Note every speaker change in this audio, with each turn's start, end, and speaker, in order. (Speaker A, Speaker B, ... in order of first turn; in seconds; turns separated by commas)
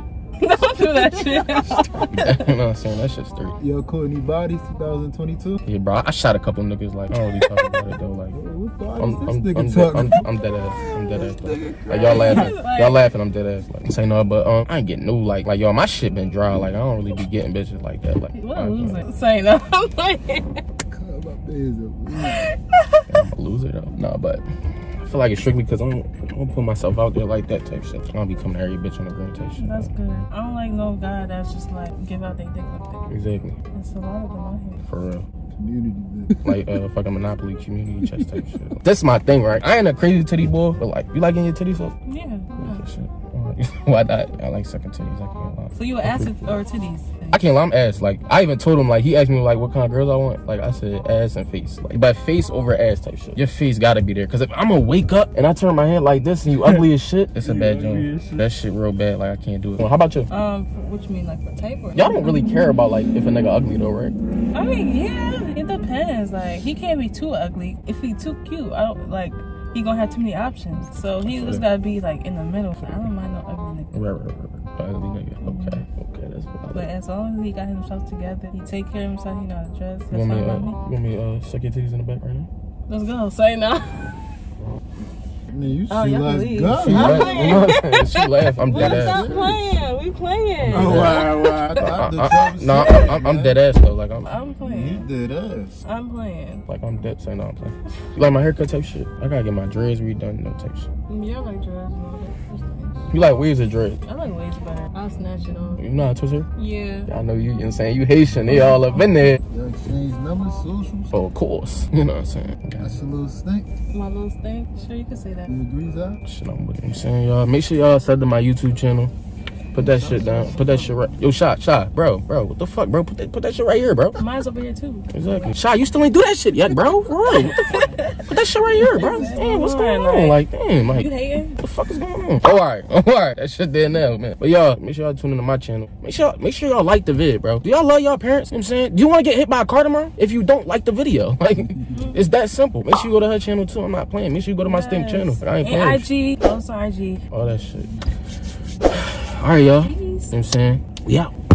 Speaker A: 0.4-2.3, Speaker B: 1.8-3.6, Speaker C: 3.6-5.6, Speaker B: 5.6-8.4, Speaker C: 8.3-12.5, Speaker B: 9.0-19.0, Speaker A: 11.9-13.0, Speaker A: 18.3-20.6, Speaker C: 20.9-22.4, Speaker A: 22.2-23.1, Speaker B: 23.1-24.4, Speaker B: 25.0-29.9, Speaker A: 29.6-33.0, Speaker B: 33.1-33.5, Speaker A: 33.7-34.8, Speaker B: 34.8-35.2, Speaker C: 35.5-36.5, Speaker B: 36.4-42.0, Speaker A: 42.1-42.8, Speaker B: 42.6-46.6, Speaker A: 45.8-47.4, Speaker B: 47.3-60.3, Speaker C: 57.5-58.3, Speaker A: 60.3-62.3, Speaker B: 61.9-64.1, Speaker A: 64.5-73.9, Speaker B: 71.2-71.6, Speaker B: 72.8-73.1, Speaker B: 73.9-76.8, Speaker A: 75.4-75.8, Speaker A: 76.7-80.8, Speaker B: 80.1-82.5, Speaker A: 82.9-84.2, Speaker C: 85.5-87.7, Speaker A: 85.9-91.9, Speaker B: 86.7-89.3, Speaker C: 88.6-89.7, Speaker B: 90.6-94.3, Speaker C: 90.7-93.6, Speaker A: 92.7-93.1, Speaker A: 94.2-95.1, Speaker C: 94.6-95.8, Speaker A: 95.8-96.6, Speaker B: 96.7-100.9, Speaker A: 101.1-103.1, Speaker B: 103.1-104.0, Speaker A: 104.0-105.8, Speaker B: 105.8-106.5, Speaker A: 106.5-107.1, Speaker B: 107.1-109.4, Speaker C: 109.5-111.1, Speaker B: 111.1-113.0, Speaker C: 112.8-113.7, Speaker A: 113.9-115.5, Speaker C: 115.5-116.2, Speaker B: 116.2-119.1, Speaker B: 119.7-124.2, Speaker C: 119.7-121.2, Speaker A: 124.2-125.5, Speaker B: 125.1-146.1, Speaker A: 127.2-130.4, Speaker A: 130.9-131.6, Speaker A: 141.9-142.2, Speaker A: 144.6-147.2, Speaker B: 147.3-147.9, Speaker B: 148.9-151.3, Speaker A: 149.8-150.3